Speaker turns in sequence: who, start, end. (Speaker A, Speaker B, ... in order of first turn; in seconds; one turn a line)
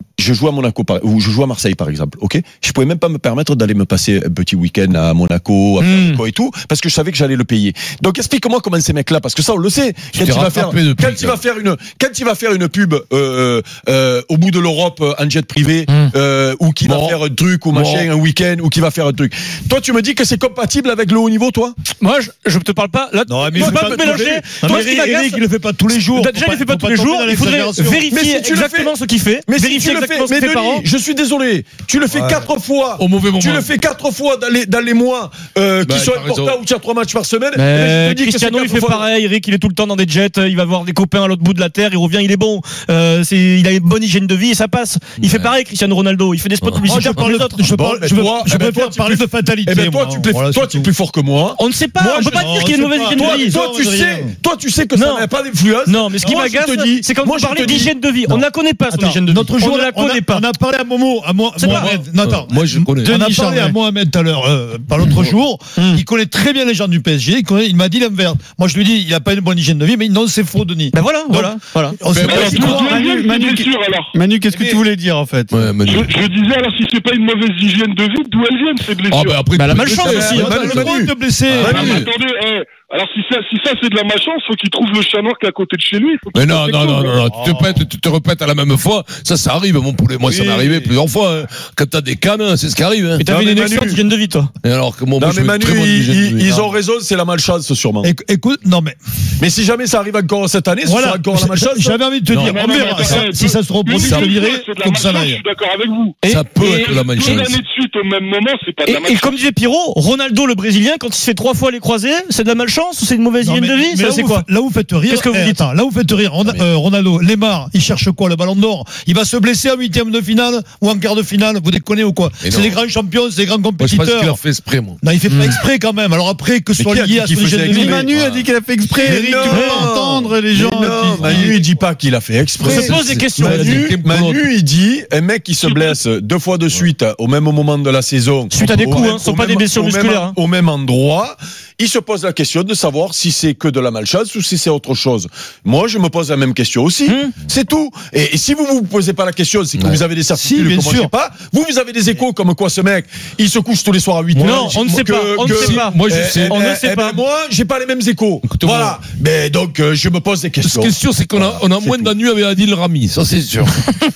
Speaker A: 0.2-21.8
Speaker B: 5.8-6.2
Speaker C: 10.1-11.4
Speaker B: 15.9-16.1
Speaker C: 16.8-17.2
Speaker C: 17.7-18.1
Speaker B: 22.0-30.9
Speaker D: 23.3-28.0
Speaker A: 23.6-24.3
Speaker A: 28.1-28.9
Speaker A: 29.5-39.0
Speaker D: 32.1-32.5
Speaker C: 33.0-33.7
Speaker C: 35.8-36.6
Speaker B: 37.5-47.6
Speaker C: 45.2-45.5
Speaker C: 46.6-46.9
Speaker D: 46.8-50.9
Speaker A: 47.7-51.6
Speaker B: 51.5-53.6
Speaker D: 52.0-54.3
Speaker A: 53.1-57.9
Speaker B: 54.9-60.5
Speaker D: 58.3-73.0
Speaker B: 61.5-62.0
Speaker C: 62.2-63.2
Speaker E: 63.0-63.8
Speaker B: 65.8-66.0
Speaker B: 70.9-72.5
Speaker F: 72.1-74.2
Speaker E: 72.5-75.7
Speaker D: 74.5-74.8
Speaker C: 75.5-76.2
Speaker F: 75.8-79.5
Speaker C: 79.1-80.9
Speaker B: 79.5-80.5
Speaker D: 80.0-81.9
Speaker A: 80.1-81.1
Speaker C: 81.5-82.1
Speaker F: 81.6-87.2
Speaker A: 81.7-82.0
Speaker C: 86.3-93.2
Speaker D: 87.3-87.9
Speaker D: 90.2-91.0
Speaker B: 93.2-94.5
Speaker A: 93.2-94.0
Speaker C: 94.6-96.6
Speaker A: 95.2-98.1
Speaker D: 98.0-98.9
Speaker A: 99.4-102.0
Speaker D: 100.8-105.4
Speaker C: 102.3-102.7
Speaker F: 102.4-109.4
Speaker C: 106.2-107.5
Speaker B: 106.2-107.4
Speaker B: 108.8-114.5
Speaker D: 113.4-124.4
Speaker B: 115.0-115.7
Speaker C: 122.4-122.8
Speaker C: 123.8-125.0
Speaker D: 125.0-128.0
Speaker B: 125.3-125.6
Speaker A: 126.8-128.1
Speaker E: 127.7-131.6
Speaker C: 128.1-128.5
Speaker D: 129.0-129.9
Speaker A: 129.0-162.1
Speaker B: 129.5-130.2
Speaker C: 131.2-131.5
Speaker B: 132.6-133.9
Speaker C: 132.6-134.4
Speaker F: 135.6-136.0
Speaker B: 138.5-140.3
Speaker B: 147.1-147.3
Speaker C: 149.8-150.0
Speaker D: 150.3-151.1
Speaker C: 154.3-156.6
Speaker B: 154.4-157.2
Speaker C: 158.4-159.0
Speaker C: 160.6-163.7